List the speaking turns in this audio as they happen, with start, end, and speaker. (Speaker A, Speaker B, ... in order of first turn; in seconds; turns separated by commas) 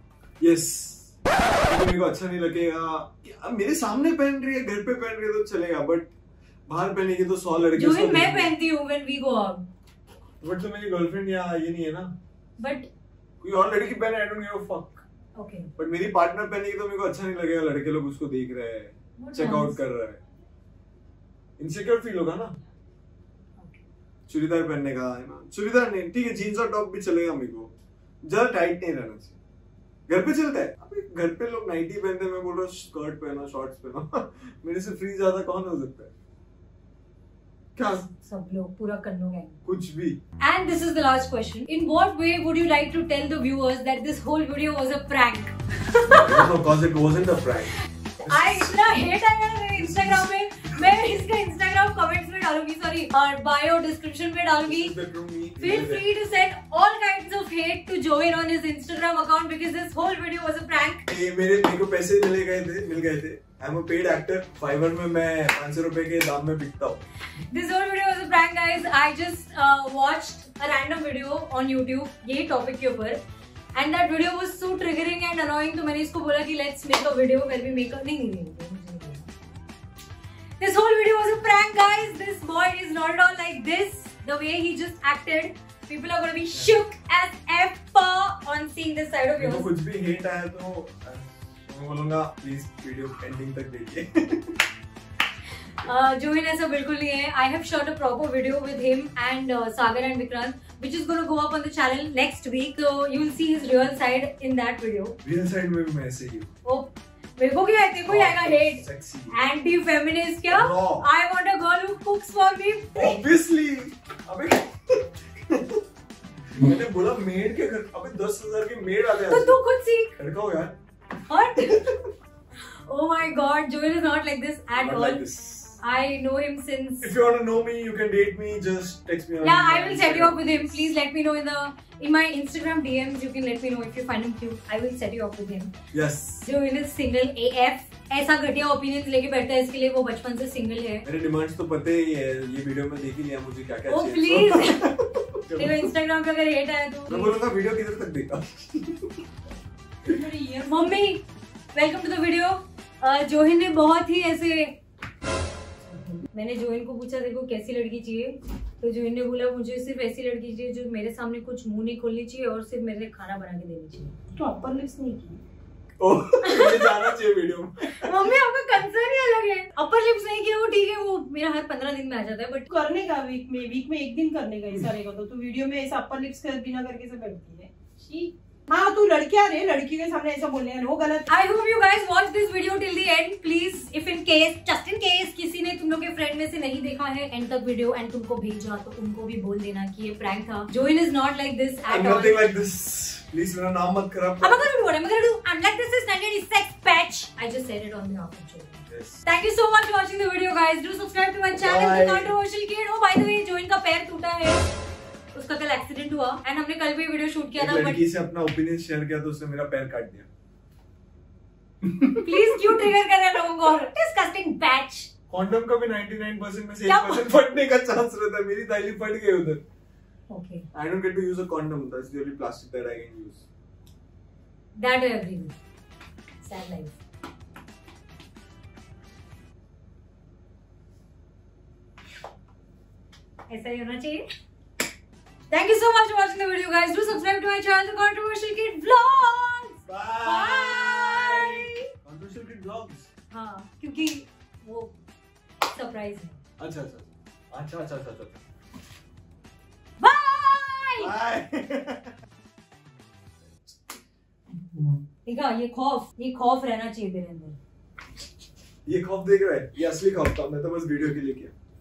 Speaker A: 0.4-1.2, Speaker A: 1.7-6.1, Speaker A: 6.7-8.5, Speaker B: 7.7-9.7, Speaker A: 10.4-12.1, Speaker B: 12.6-12.9, Speaker A: 13.4-15.1, Speaker B: 15.4-15.7, Speaker A: 15.8-20.2, Speaker B: 19.2-19.8, Speaker A: 21.6-22.5, Speaker B: 23.6-23.8, Speaker A: 24.3-27.7, Speaker A: 28.2-29.4, Speaker A: 30.1-36.1, Speaker A: 37.8-38.0, Speaker B: 37.9-39.6, Speaker A: 39.6-40.2, Speaker B: 40.4-46.5, Speaker A: 46.1-48.8, Speaker B: 48.2-54.9, Speaker A: 49.8-50.8, Speaker A: 54.6-56.1, Speaker B: 55.6-61.1, Speaker A: 61.1-67.0, Speaker B: 67.5-73.2, Speaker B: 73.7-79.3, Speaker B: 80.6-89.7, Speaker A: 86.5-86.8, Speaker A: 89.4-94.6, Speaker B: 95.8-105.2, Speaker A: 105.2-106.5, Speaker B: 106.7-113.2, Speaker A: 108.1-109.3, Speaker A: 110.5-111.1, Speaker A: 113.0-115.8, Speaker A: 116.5-119.6, Speaker B: 119.3-120.2, Speaker A: 120.2-120.8, Speaker B: 121.3-121.8, Speaker A: 121.6-122.0, Speaker B: 122.9-125.3, Speaker A: 124.7-125.8, Speaker B: 125.8-127.1, Speaker A: 127.0-130.9, Speaker B: 129.4-135.7, Speaker A: 135.9-136.5, Speaker B: 136.4-141.1, Speaker A: 141.1-145.9, Speaker B: 143.9-144.9, Speaker B: 145.6-147.4, Speaker A: 147.1-149.2, Speaker C: 150.1-151.1, Speaker B: 150.6-151.2, Speaker B: 151.7-154.8, Speaker B: 156.0-164.1, Speaker C: 164.3-165.4, Speaker A: 166.0-168.1, Speaker B: 166.4-167.1, Speaker B: 167.9-172.7, Speaker C: 172.7-181.3, Speaker B: 181.3-192.4, Speaker A: 191.9-194.7, Speaker B: 194.4-204.7, Speaker A: 198.9-199.2, Speaker A: 201.6-202.3, Speaker B: 205.3-208.0, Speaker A: 207.6-210.3, Speaker A: 211.8-212.9, Speaker B: 212.2-215.1, Speaker A: 215.3-219.6, Speaker B: 216.9-217.3, Speaker B: 220.3-220.7, Speaker A: 220.7-223.5, Speaker B: 224.8-225.6, Speaker B: 226.4-227.0, Speaker B: 233.5-234.2, Speaker B: 235.5-241.9, Speaker A: 239.9-243.1, Speaker B: 243.3-244.9, Speaker B: 245.6-246.4, Speaker A: 246.6-248.4, Speaker B: 250.0-251.1, Speaker A: 251.0-252.1, Speaker B: 254.8-257.6, Speaker A: 258.9-261.5